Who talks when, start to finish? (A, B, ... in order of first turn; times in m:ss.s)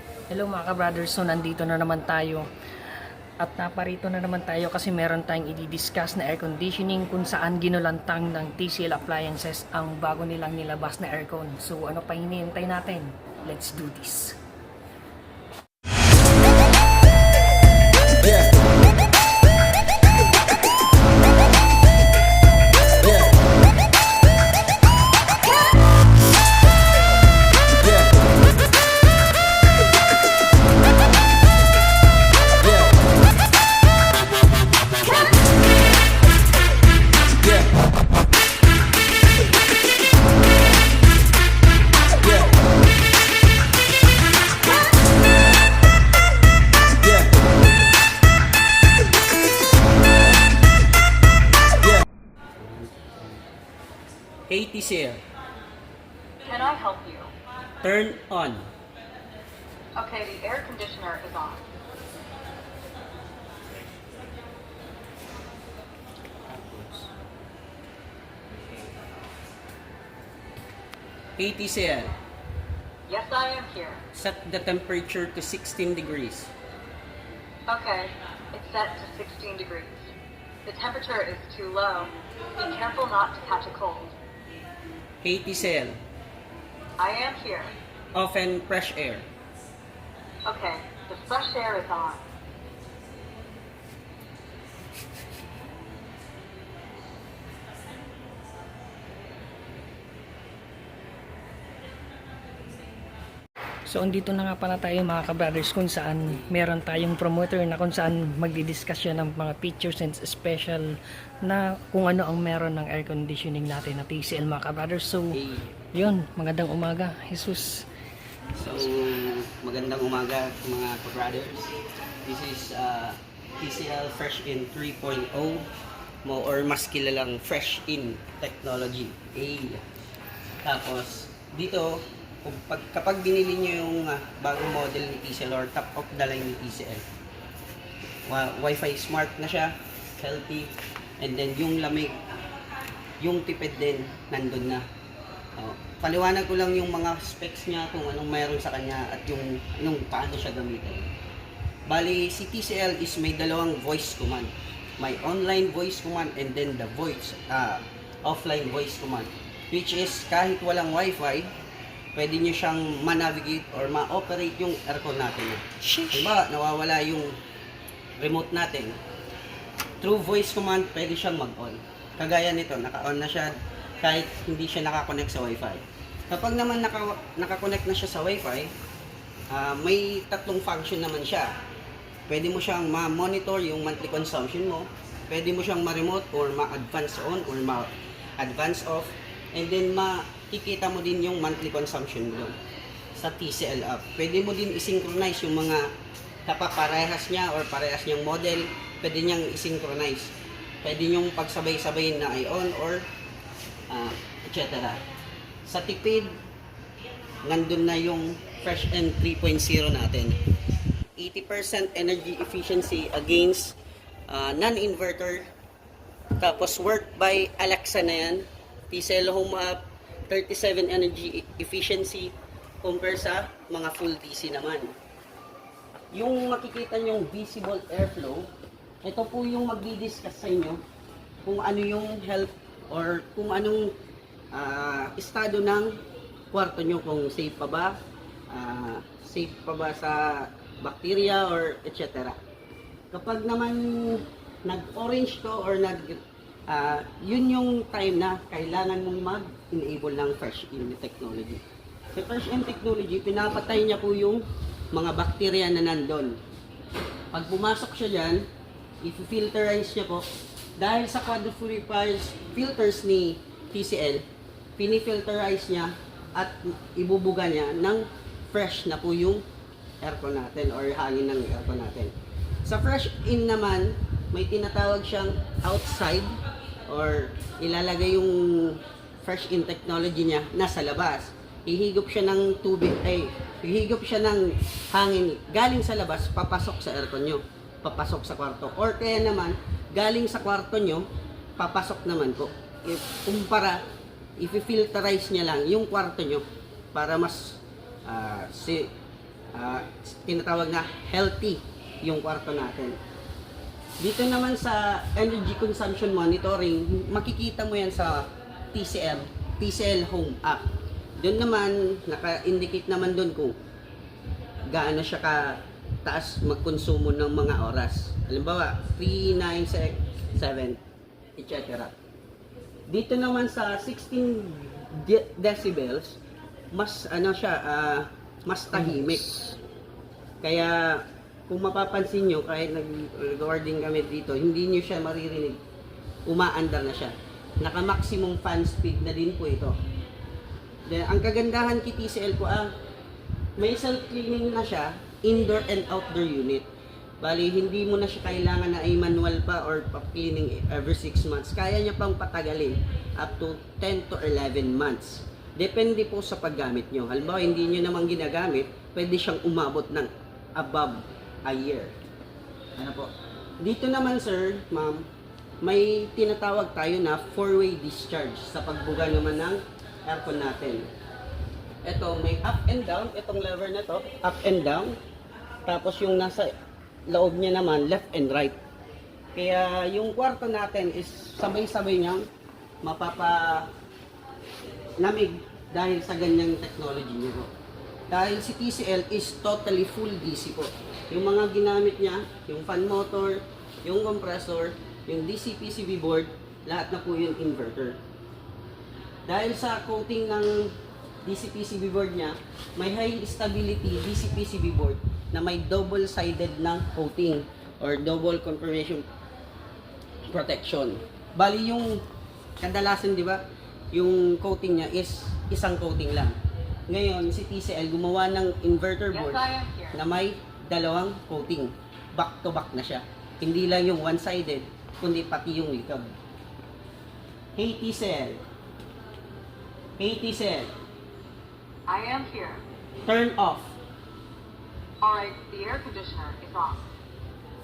0:00.3-0:02.5 A
0:03.4-0:14.4 A
0:54.5-0:55.2 B
0:56.4-0:57.3 C
0:57.8-0:58.7 B
1:00.0-1:01.6 C
1:11.4-1:12.1 B
1:13.1-1:14.0 C
1:14.1-1:16.5 B
1:17.7-1:20.0 C
1:20.6-1:24.2 C
1:25.2-1:26.0 B
1:27.0-1:27.7 C
1:28.2-1:29.3 B
1:30.5-1:32.2 C
1:43.9-1:55.4 A
1:55.3-1:55.7 B
1:55.9-1:57.8 A
1:58.6-2:01.7 B
2:02.2-2:05.7 B
2:06.2-2:09.8 B
2:10.6-2:17.0 B
2:18.3-2:22.2 B
2:23.2-2:24.8 B
2:25.6-2:31.1 B
2:31.9-2:41.5 B
2:42.2-2:47.3 B
2:48.2-2:49.0 B
2:50.0-2:58.7 B
2:59.5-3:01.5 B
3:02.3-3:12.6 B
3:13.1-3:15.9 B
3:16.5-3:23.0 B
3:23.9-3:25.0 B
3:25.7-3:26.4 B
3:27.4-3:30.4 B
3:31.2-3:33.8 B
3:34.3-3:35.5 B
3:36.4-3:44.9 B
3:46.1-3:48.5 B
3:49.0-3:50.8 B
3:51.4-3:53.9 B
3:54.5-3:55.9 B
3:56.5-3:58.0 B
3:58.5-4:02.4 B
4:03.1-4:11.6 B
4:12.2-4:16.4 B
4:17.3-4:18.4 B
4:19.0-4:20.2 B
4:20.8-4:24.2 B
4:24.8-4:29.4 B
4:30.0-4:32.1 B
4:32.6-4:36.3 B
4:36.9-4:51.0 B
4:51.6-4:53.8 B
4:54.4-4:58.9 B
4:59.5-5:03.0 B
5:04.0-5:10.7 B
5:11.2-5:13.6 B
5:14.7-5:20.8 B
5:21.4-5:21.9 B
5:22.9-5:26.2 B
5:26.7-5:29.6 B
5:30.4-5:35.6 B
5:36.3-5:39.8 B
5:40.9-5:42.7 B
5:43.6-5:46.6 B
5:47.2-6:01.9 B
6:02.8-6:03.1 B
6:03.6-6:05.0 B
6:05.6-6:10.9 B
6:11.8-6:15.0 B
6:15.7-6:16.5 B
6:17.1-6:18.6 B
6:19.3-6:22.2 B
6:22.8-6:23.7 B
6:25.0-6:27.5 B
6:28.1-6:38.0 B
6:39.3-6:49.0 B
6:50.2-6:52.0 B
6:52.6-6:53.4 B
6:53.9-6:56.4 B
6:56.9-7:06.1 B
6:59.1-7:00.0 C
7:07.6-7:08.4 B
7:10.0-7:10.7 B
7:11.9-7:12.6 C
7:13.1-7:13.8 B
7:15.0-7:16.9 C